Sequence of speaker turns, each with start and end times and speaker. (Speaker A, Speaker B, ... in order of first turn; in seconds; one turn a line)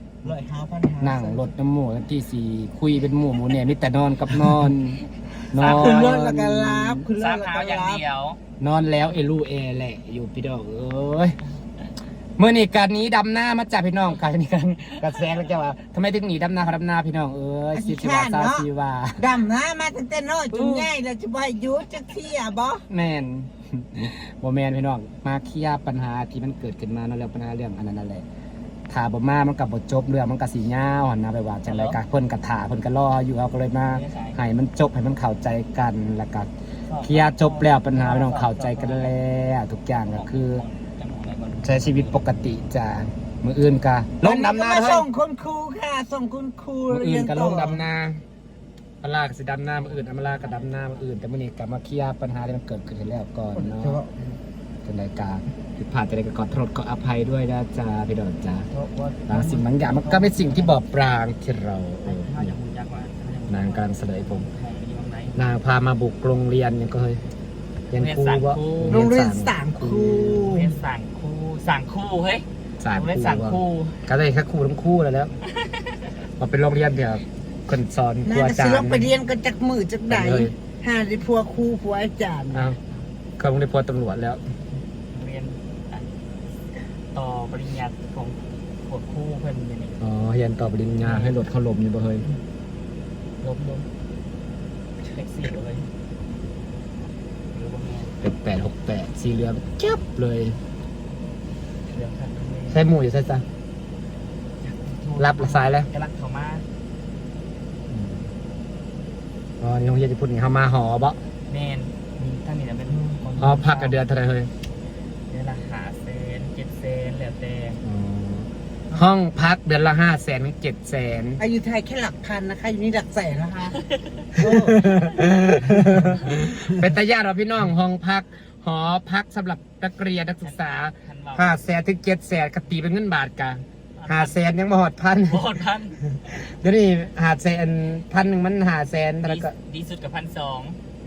Speaker A: 0.2-1.5
Speaker B: 1.0-7.1
Speaker C: 5.5-6.3
Speaker A: 5.8-8.0
Speaker C: 7.2-8.4
Speaker B: 8.6-11.4
Speaker B: 12.4-19.4
Speaker A: 17.7-18.7
Speaker A: 19.2-22.8
Speaker B: 20.5-20.9
Speaker B: 22.9-28.2
Speaker B: 28.9-36.5
Speaker C: 31.6-32.0
Speaker C: 33.9-34.4
Speaker C: 36.9-39.1
Speaker B: 37.0-40.6
Speaker C: 40.1-42.3
Speaker B: 41.6-45.1
Speaker A: 44.2-47.9
Speaker B: 46.9-48.2
Speaker B: 49.0-54.0
Speaker C: 49.7-51.1
Speaker A: 53.5-54.3
Speaker B: 54.8-58.7
Speaker C: 58.7-60.8
Speaker B: 59.3-62.5
Speaker C: 62.0-65.4
Speaker B: 63.5-64.5
Speaker B: 65.3-67.2
Speaker B: 67.9-70.6
Speaker C: 68.0-69.1
Speaker A: 68.9-70.7
Speaker C: 70.4-74.0
Speaker B: 72.8-75.3
Speaker C: 75.5-76.1
Speaker B: 76.4-79.1
Speaker A: 78.2-82.7
Speaker B: 80.1-80.6
Speaker B: 82.5-82.8
Speaker B: 83.4-84.4
Speaker C: 85.1-86.1
Speaker C: 87.1-90.0
Speaker B: 90.0-92.3
Speaker C: 91.0-91.4
Speaker C: 93.4-93.9
Speaker C: 95.0-95.9
Speaker C: 97.5-98.1
Speaker B: 98.2-100.6
Speaker C: 101.9-102.8
Speaker B: 102.7-103.4
Speaker C: 104.6-106.6
Speaker B: 105.2-105.9
Speaker B: 107.9-108.3
Speaker B: 109.6-111.2
Speaker C: 111.5-114.0
Speaker A: 112.9-113.2
Speaker B: 113.4-114.5
Speaker C: 115.3-117.8
Speaker B: 117.8-121.4
Speaker A: 121.4-123.8
Speaker C: 123.7-124.2
Speaker A: 124.3-126.8
Speaker B: 124.4-135.6
Speaker C: 130.4-131.6
Speaker C: 134.0-134.4
Speaker C: 135.3-136.0
Speaker B: 136.2-139.5
Speaker C: 139.2-140.8